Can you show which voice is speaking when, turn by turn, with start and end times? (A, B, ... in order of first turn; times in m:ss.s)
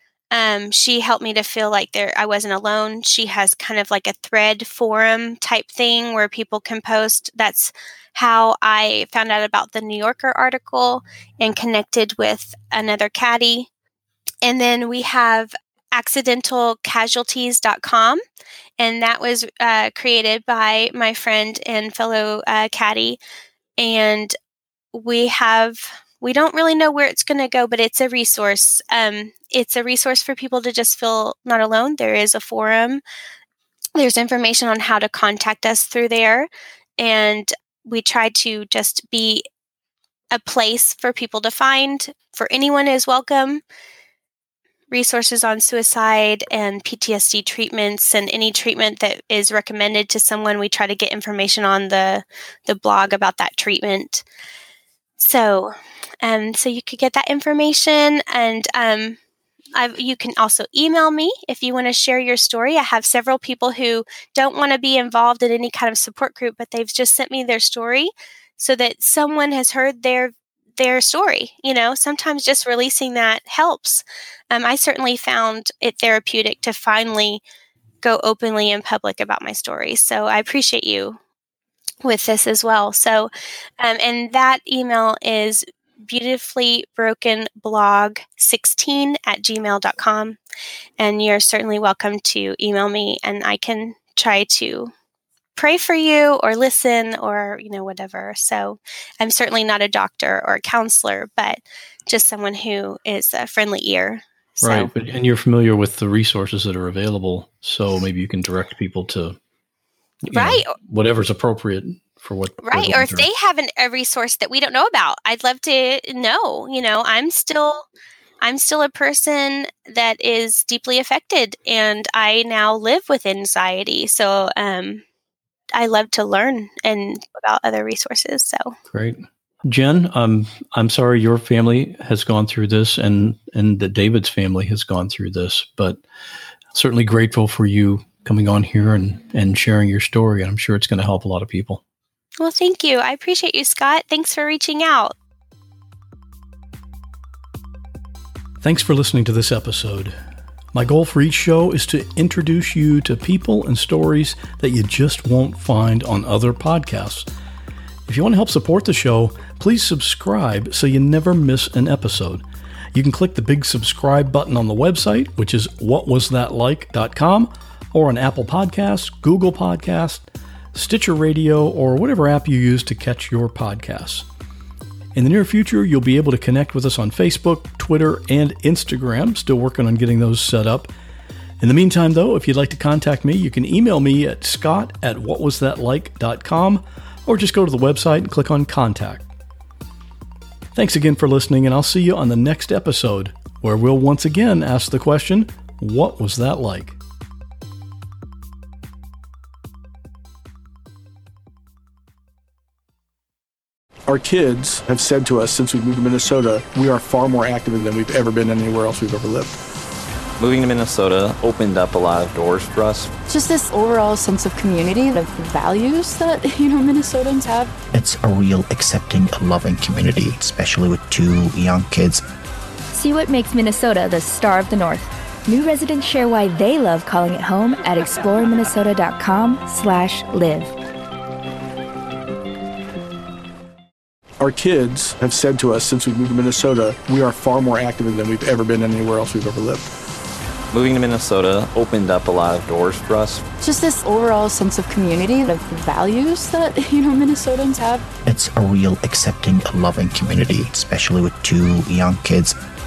0:00.3-0:13.7 A
0:14.4-0:18.2 A
0:18.8-0:23.2 A
0:23.8-0:24.3 A
0:24.9-0:33.0 A
0:34.0-0:39.4 A
0:40.3-0:43.6 A
0:44.9-0:54.2 A
0:55.2-0:59.2 A
0:59.7-1:17.4 A
1:18.0-1:21.2 A
1:22.0-1:30.4 A
1:31.0-1:34.9 A
1:35.6-1:44.9 A
1:44.6-1:49.4 B
1:50.2-1:53.3 B
1:50.3-1:50.7 A
1:52.6-1:57.8 A
1:58.4-2:05.0 A
2:05.7-2:08.7 A
2:08.9-2:16.0 B
2:16.7-2:21.8 B
2:22.4-2:25.1 A
2:28.6-2:30.2 B
2:30.7-2:37.3 B
2:38.1-2:54.2 B
2:55.1-3:00.9 B
3:01.6-3:09.2 B
3:10.7-3:17.0 B
3:24.1-3:29.5 C
3:30.4-3:33.1 D
3:33.3-3:37.7 E
3:37.9-3:42.2 F
3:42.9-3:50.7 G
3:54.4-3:59.9 C
4:00.7-4:03.4 D
4:03.6-4:08.0 E
4:08.2-4:12.6 F